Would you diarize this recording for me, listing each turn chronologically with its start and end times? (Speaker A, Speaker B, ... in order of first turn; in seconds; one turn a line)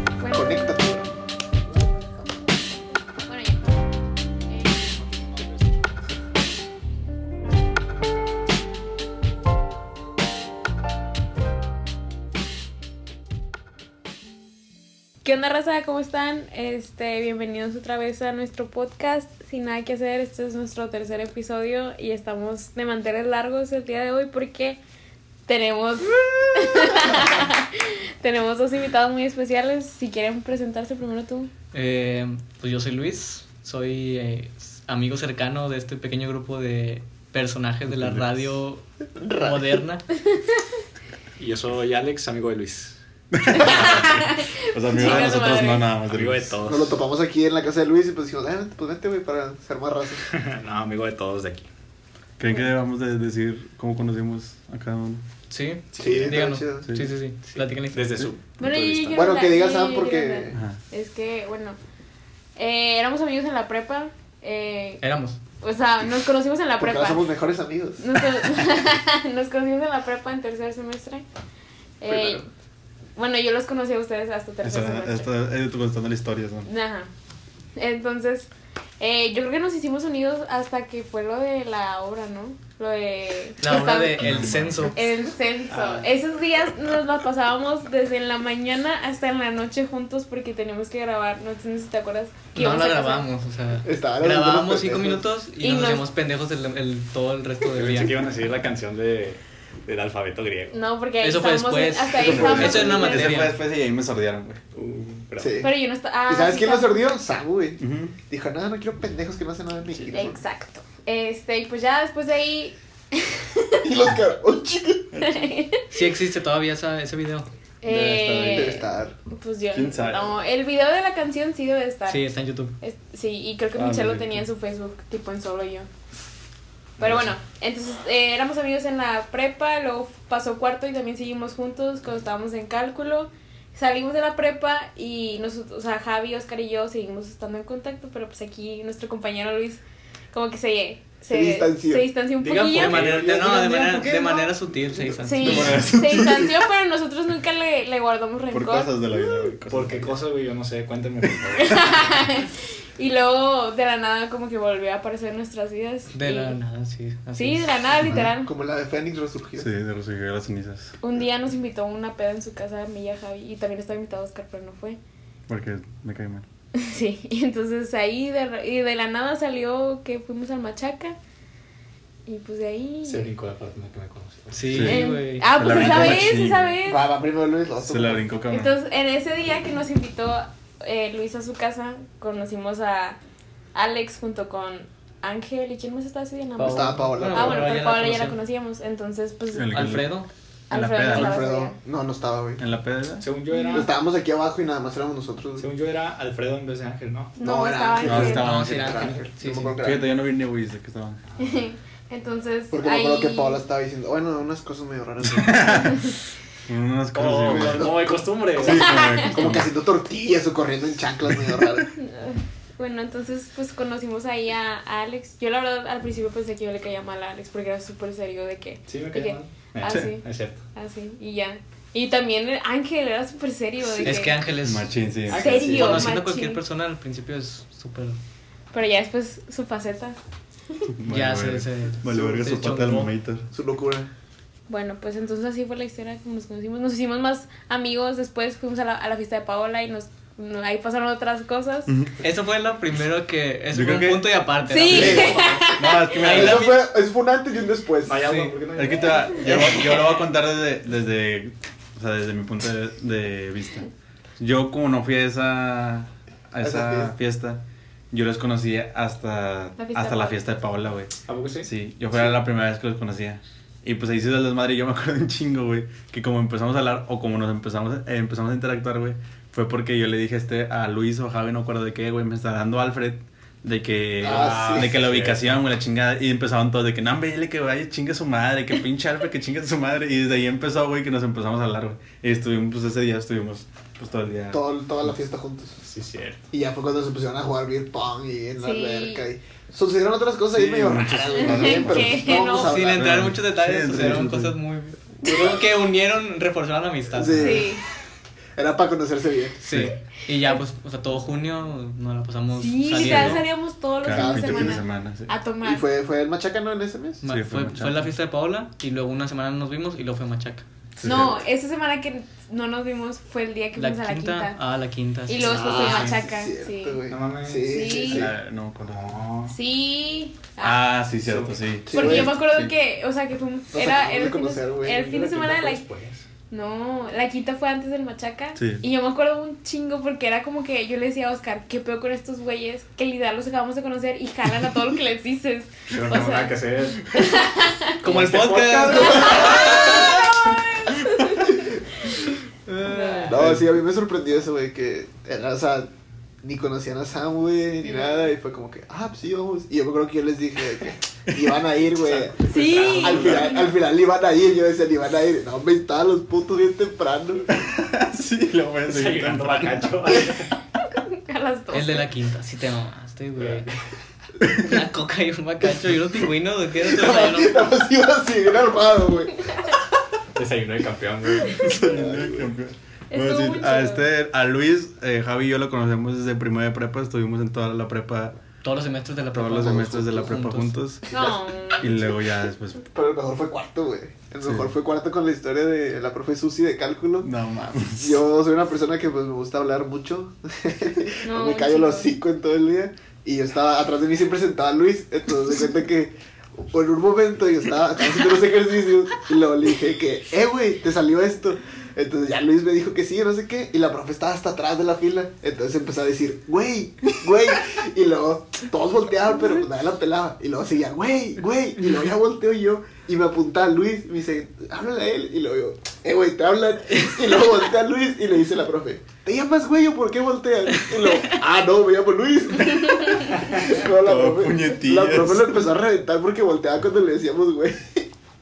Speaker A: 0.2-0.8
Speaker B: 0.3-1.1
Speaker A: 3.2-3.9
Speaker A: 4.5-5.2
Speaker A: 15.2-24.8
Speaker A: 25.5-31.5
Speaker C: 31.7-40.0
Speaker D: 37.9-38.5
Speaker B: 39.2-39.8
Speaker A: 40.3-40.6
Speaker E: 41.4-43.0
Speaker D: 43.3-46.5
Speaker A: 43.5-45.9
Speaker E: 46.0-47.0
Speaker B: 46.6-50.2
Speaker E: 50.3-51.7
Speaker D: 52.4-55.2
Speaker C: 55.5-58.1
Speaker E: 55.9-56.4
Speaker B: 56.0-56.9
Speaker D: 56.8-57.1
Speaker E: 57.5-59.3
Speaker A: 58.6-61.8
Speaker B: 59.1-60.6
Speaker D: 60.5-60.8
Speaker A: 62.6-65.0
Speaker C: 65.0-65.4
Speaker A: 65.6-67.3
Speaker B: 66.8-68.3
Speaker A: 68.0-71.2
Speaker A: 72.0-72.5
Speaker B: 72.0-72.4
Speaker A: 73.2-75.3
Speaker D: 74.6-76.7
Speaker A: 76.7-77.1
Speaker A: 77.8-93.3
Speaker C: 83.6-85.1
Speaker D: 84.2-84.9
Speaker C: 92.5-98.2
Speaker B: 93.8-95.2
Speaker A: 95.6-96.0
Speaker E: 97.7-100.8
Speaker A: 100.7-103.5
Speaker C: 101.2-103.6
Speaker D: 102.2-104.6
Speaker E: 104.8-105.6
Speaker B: 105.4-105.8
Speaker A: 105.6-107.2
Speaker B: 106.3-110.4
Speaker D: 107.8-108.2
Speaker A: 110.1-113.9
Speaker B: 113.8-115.2
Speaker D: 115.1-115.5
Speaker A: 115.2-115.8
Speaker C: 115.9-117.5
Speaker A: 117.8-122.2
Speaker D: 117.8-118.8
Speaker B: 118.5-119.2
Speaker D: 119.7-120.4
Speaker C: 122.1-122.8
Speaker A: 122.8-125.9
Speaker D: 123.8-124.5
Speaker A: 127.0-143.0
Speaker D: 127.0-127.3
Speaker B: 141.3-142.1
Speaker E: 142.4-145.8
Speaker C: 142.7-145.9
Speaker A: 145.2-149.4
Speaker D: 145.5-146.4
Speaker D: 148.5-150.2
Speaker E: 149.7-152.2
Speaker A: 151.6-156.6
Speaker C: 156.1-157.9
Speaker A: 157.4-158.5
Speaker B: 158.1-159.7
Speaker D: 159.6-160.9
Speaker A: 161.0-165.0
Speaker D: 165.5-166.5
Speaker A: 166.8-171.2
Speaker A: 172.3-173.3
Speaker E: 173.1-174.9
Speaker C: 174.5-176.0
Speaker D: 174.7-175.0
Speaker A: 174.8-177.1
Speaker D: 175.6-176.8
Speaker B: 176.8-178.3
Speaker D: 177.8-178.8
Speaker A: 178.5-183.2
Speaker A: 183.7-189.9
Speaker C: 186.6-188.4
Speaker B: 186.6-187.8
Speaker D: 189.5-190.2
Speaker C: 189.7-190.3
Speaker A: 190.7-191.8
Speaker D: 190.7-191.4
Speaker B: 191.1-192.6
Speaker D: 192.6-193.3
Speaker E: 193.2-193.9
Speaker A: 193.5-193.9
Speaker B: 193.7-195.7
Speaker E: 195.6-197.4
Speaker A: 197.4-198.5
Speaker B: 197.4-200.1
Speaker D: 198.0-199.0
Speaker C: 198.4-199.7
Speaker D: 199.8-201.2
Speaker A: 201.4-203.6
Speaker B: 202.7-206.0
Speaker D: 205.2-206.1
Speaker D: 206.7-208.0
Speaker E: 207.1-208.9
Speaker B: 207.3-211.9
Speaker D: 208.6-209.7
Speaker A: 208.7-209.4
Speaker D: 211.3-211.5
Speaker A: 211.9-224.4
Speaker E: 218.9-220.6
Speaker B: 223.8-224.2
Speaker C: 224.0-228.2
Speaker D: 224.6-225.7
Speaker E: 225.3-226.0
Speaker A: 225.3-226.6
Speaker A: 228.7-230.2
Speaker D: 231.0-233.5
Speaker C: 231.1-233.1
Speaker B: 232.0-232.9
Speaker B: 233.5-234.1
Speaker A: 234.7-241.9
Speaker D: 241.9-242.1
Speaker C: 242.2-246.8
Speaker D: 243.7-246.8
Speaker A: 244.6-246.2
Speaker B: 246.2-248.6
Speaker E: 248.1-250.0
Speaker D: 248.8-253.9
Speaker A: 249.5-249.9
Speaker D: 254.4-284.6
Speaker B: 256.6-257.1
Speaker A: 259.8-260.4
Speaker E: 261.3-261.7
Speaker E: 274.2-275.6
Speaker B: 274.2-274.9
Speaker B: 284.5-285.8
Speaker E: 285.8-286.4
Speaker B: 286.5-293.2
Speaker A: 288.6-289.2
Speaker D: 290.5-294.6
Speaker A: 291.3-292.8
Speaker C: 292.5-297.6
Speaker B: 295.2-295.6
Speaker B: 297.1-297.8
Speaker A: 297.4-297.8
Speaker B: 298.6-299.6
Speaker C: 299.6-303.5
Speaker A: 302.5-305.8
Speaker D: 302.9-303.4
Speaker D: 304.0-305.3
Speaker B: 304.1-304.8
Speaker B: 305.6-307.2
Speaker C: 307.2-310.6
Speaker D: 307.2-308.1
Speaker D: 311.0-311.4
Speaker A: 311.0-314.6
Speaker B: 311.1-311.4
Speaker C: 313.8-315.7
Speaker A: 315.3-317.0
Speaker B: 315.4-318.3
Speaker E: 317.1-318.3
Speaker A: 317.6-318.2
Speaker D: 318.1-319.1
Speaker E: 318.9-319.5
Speaker A: 319.5-320.8
Speaker D: 320.6-322.7
Speaker E: 321.2-321.6
Speaker B: 321.9-322.4
Speaker A: 321.9-325.8
Speaker B: 323.7-325.0
Speaker E: 324.9-326.2
Speaker A: 326.5-338.0
Speaker D: 328.6-328.9
Speaker E: 335.9-337.2
Speaker E: 338.0-340.1
Speaker C: 338.0-340.1
Speaker A: 338.9-341.6
Speaker C: 342.7-343.4
Speaker A: 342.8-343.4
Speaker B: 343.3-345.9
Speaker D: 343.3-343.8
Speaker B: 346.4-357.5
Speaker A: 347.8-348.3
Speaker D: 351.3-351.6
Speaker E: 352.0-353.5
Speaker A: 352.4-353.8
Speaker D: 357.5-360.1
Speaker E: 358.9-360.5
Speaker A: 360.9-362.1
Speaker C: 361.7-363.7
Speaker E: 363.4-363.8
Speaker C: 364.5-367.6
Speaker B: 366.8-369.7
Speaker E: 370.4-371.6
Speaker A: 371.5-371.8
Speaker B: 371.6-372.5
Speaker D: 371.6-378.4
Speaker A: 373.1-374.1
Speaker C: 378.6-380.8
Speaker D: 379.3-381.1
Speaker B: 379.7-380.3
Speaker A: 381.1-382.1
Speaker D: 381.8-382.8
Speaker B: 382.9-428.1
Speaker D: 384.4-384.7
Speaker D: 387.2-388.2
Speaker A: 391.2-392.1
Speaker D: 423.9-425.7